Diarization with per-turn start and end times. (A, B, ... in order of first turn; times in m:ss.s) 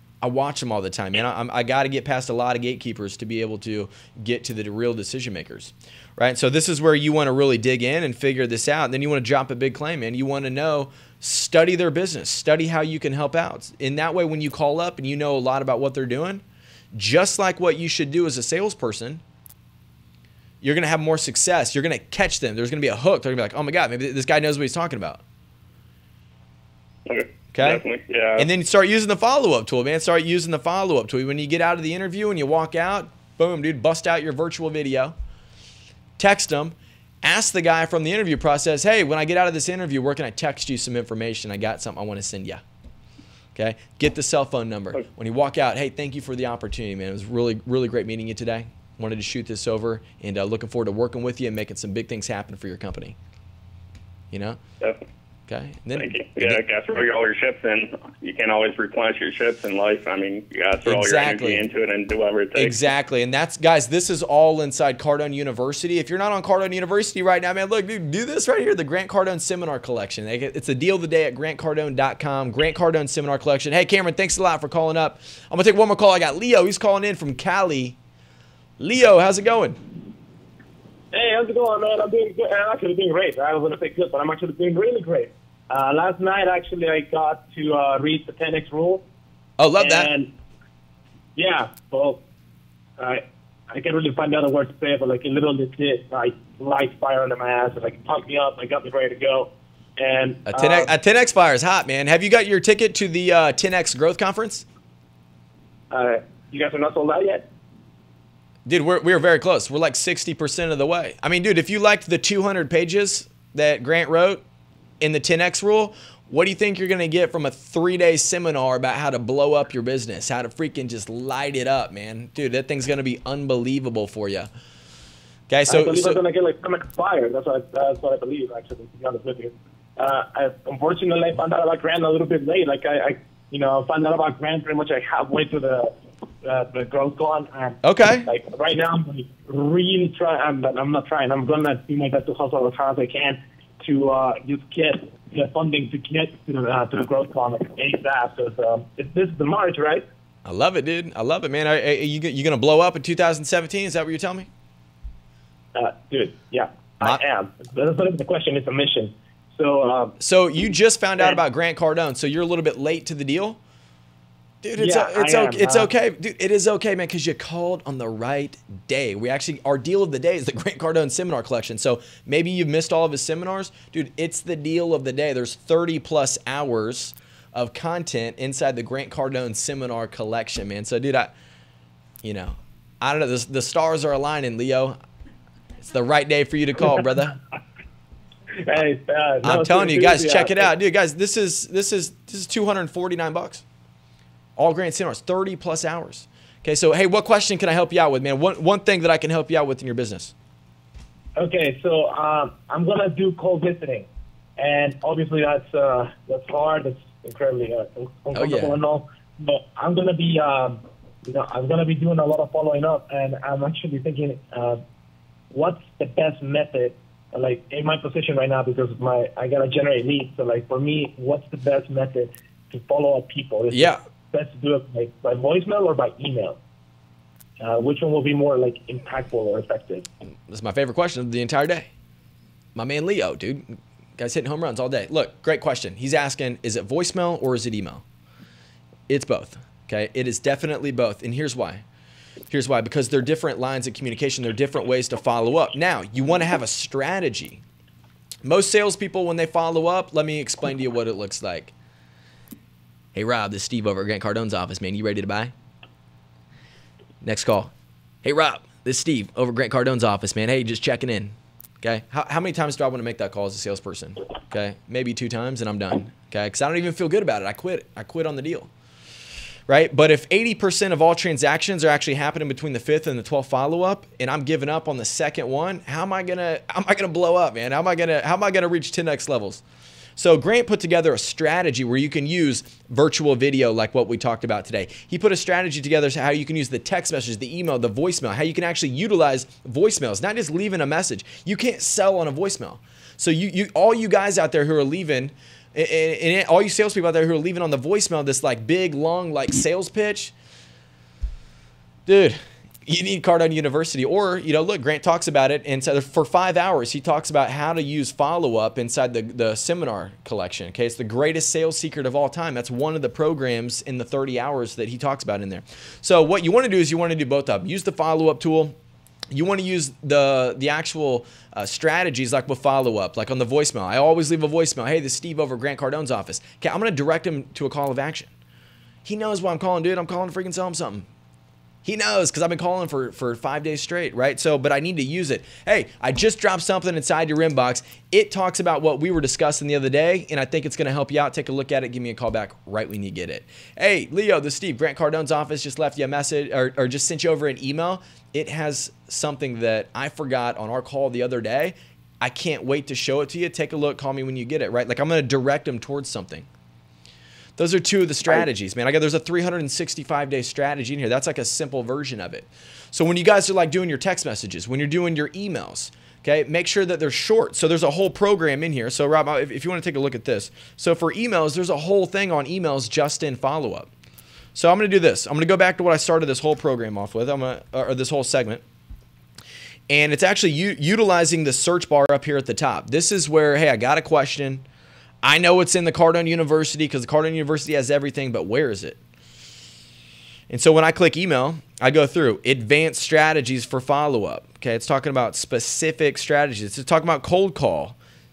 0:00.2-0:16.4 A
0:16.9-0:19.2 A
0:20.6-0:25.2 A
0:27.0-0:28.5 B
0:27.5-0:27.8 A
0:28.4-0:35.1 A
0:36.2-0:42.6 A
0:43.5-0:53.2 A
0:54.3-0:54.6 A
0:55.5-0:56.6 A
0:56.0-1:02.8 B
1:00.8-1:01.7 A
1:02.5-1:18.0 A
1:18.8-1:19.8 A
1:21.1-1:29.0 C
1:29.6-1:30.1 A
1:29.8-1:30.3 C
1:31.4-1:32.2 C
1:33.0-1:40.9 C
1:40.4-1:44.6 A
1:45.9-1:47.4 C
1:48.6-1:54.4 A
1:55.0-2:04.5 A
2:05.5-2:06.2 A
2:05.7-2:30.0 C
2:17.8-2:18.3 A
2:30.4-2:34.5 A
2:35.7-2:40.1 C
2:40.2-2:43.6 A
2:44.6-3:01.3 A
2:44.8-2:45.9 C
3:02.2-3:05.0 A
3:05.8-3:07.4 A
3:08.6-3:10.7 C
3:09.4-3:13.6 A
3:14.6-3:20.3 A
3:21.4-3:24.1 C
3:24.6-3:34.8 C
3:28.3-3:28.8 A
3:35.5-3:46.6 C
3:43.7-3:44.0 A
3:47.6-3:50.0 C
3:50.5-3:51.9 A
3:52.8-3:58.0 A
3:59.1-4:01.8 A
4:02.5-4:07.6 A
4:08.4-4:11.7 A
4:13.1-4:15.5 A
4:17.2-4:17.7 A
4:18.2-4:28.7 A
4:29.7-4:39.6 A
4:40.2-5:00.3 A
5:02.0-5:18.8 A
5:19.3-5:28.3 A
5:29.0-5:31.1 A
5:31.8-5:56.5 A
5:57.6-6:13.9 A
6:14.5-6:18.6 A
6:19.9-6:24.6 A
6:25.2-6:29.0 A
6:30.5-6:38.0 A